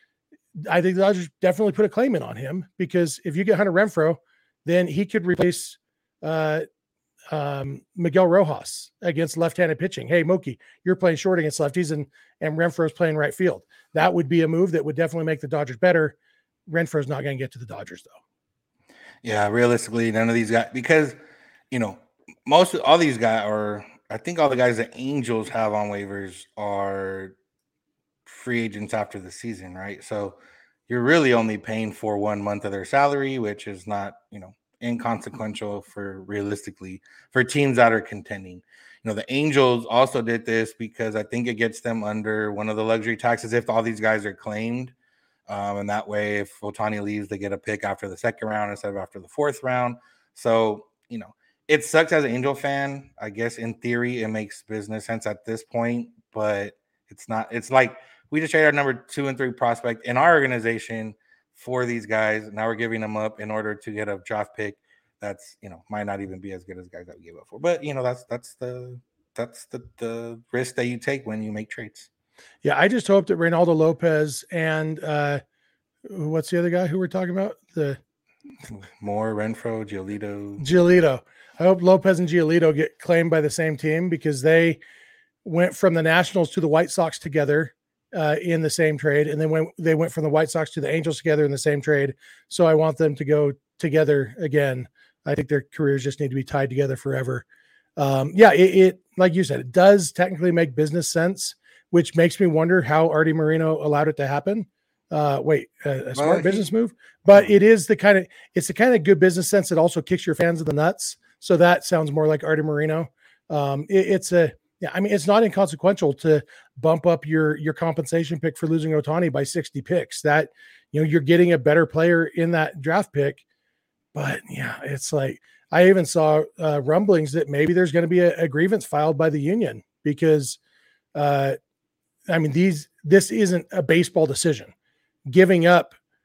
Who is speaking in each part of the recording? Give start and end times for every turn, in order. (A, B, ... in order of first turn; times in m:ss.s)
0:00.5-0:06.6 A
0:07.3-0:16.2 A
0:16.7-0:18.2 A
0:19.2-0:21.2 B
0:21.7-0:27.4 B
0:28.2-0:44.9 B
0:45.5-1:12.1 B
1:12.6-1:15.4 A
1:16.0-1:18.0 A
1:18.7-1:20.6 B
1:20.6-1:24.8 A
1:25.4-1:37.4 A
1:38.0-2:03.4 A
1:46.1-1:46.6 B
2:04.1-2:10.6 A
2:11.1-2:11.6 A
2:12.3-2:14.7 A
2:15.3-2:15.9 A